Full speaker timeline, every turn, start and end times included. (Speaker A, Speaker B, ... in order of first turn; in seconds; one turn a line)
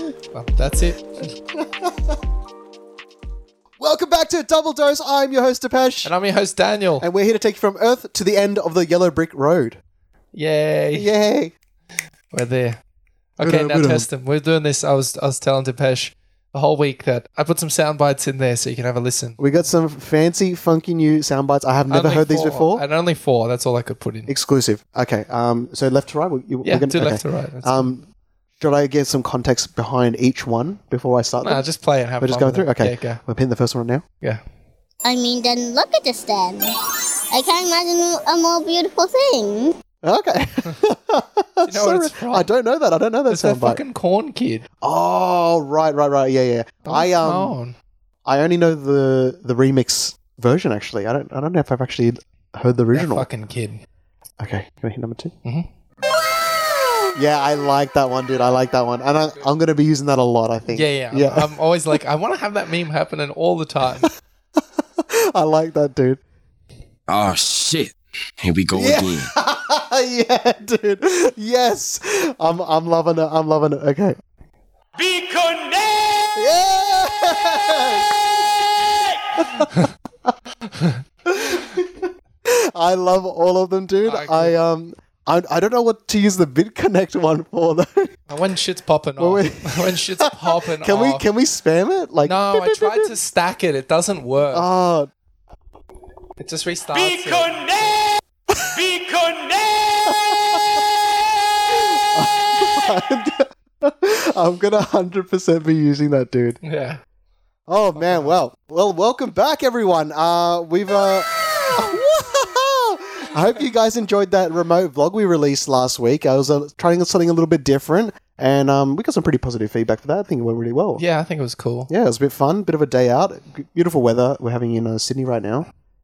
Speaker A: 0.3-1.3
Speaker B: 1.5-2.2
Speaker B: 3.8-6.1
Speaker A: 6.0-7.1
Speaker B: 7.0-9.8
Speaker A: 10.3-11.1
Speaker B: 10.9-11.6
Speaker A: 12.3-12.8
Speaker A: 13.4-19.4
Speaker B: 13.4-14.1
Speaker B: 19.4-22.8
Speaker A: 21.9-24.3
Speaker B: 24.3-28.1
Speaker A: 26.6-27.9
Speaker B: 28.6-31.7
Speaker A: 31.4-33.2
Speaker B: 32.2-34.0
Speaker C: 35.0-36.7
Speaker C: 37.3-39.8
Speaker B: 40.0-43.8
Speaker A: 41.7-42.5
Speaker A: 43.3-44.7
Speaker B: 44.8-47.5
Speaker A: 46.9-47.8
Speaker B: 48.2-53.2
Speaker A: 52.9-53.8
Speaker B: 54.4-55.3
Speaker B: 57.0-62.0
Speaker A: 60.7-64.1
Speaker B: 64.8-66.2
Speaker D: 67.1-69.3
Speaker B: 68.7-74.2
Speaker B: 76.3-78.7
Speaker B: 79.3-79.7
Speaker B: 81.2-88.2
Speaker A: 84.0-84.5
Speaker A: 88.3-91.2
Speaker B: 89.2-93.1
Speaker A: 92.2-94.7
Speaker B: 94.5-95.1
Speaker A: 96.4-98.0
Speaker B: 98.5-98.9
Speaker B: 100.0-100.8
Speaker B: 101.7-106.6
Speaker A: 106.6-107.0
Speaker B: 107.7-121.0
Speaker A: 108.0-108.3
Speaker A: 121.0-121.9
Speaker B: 121.9-125.7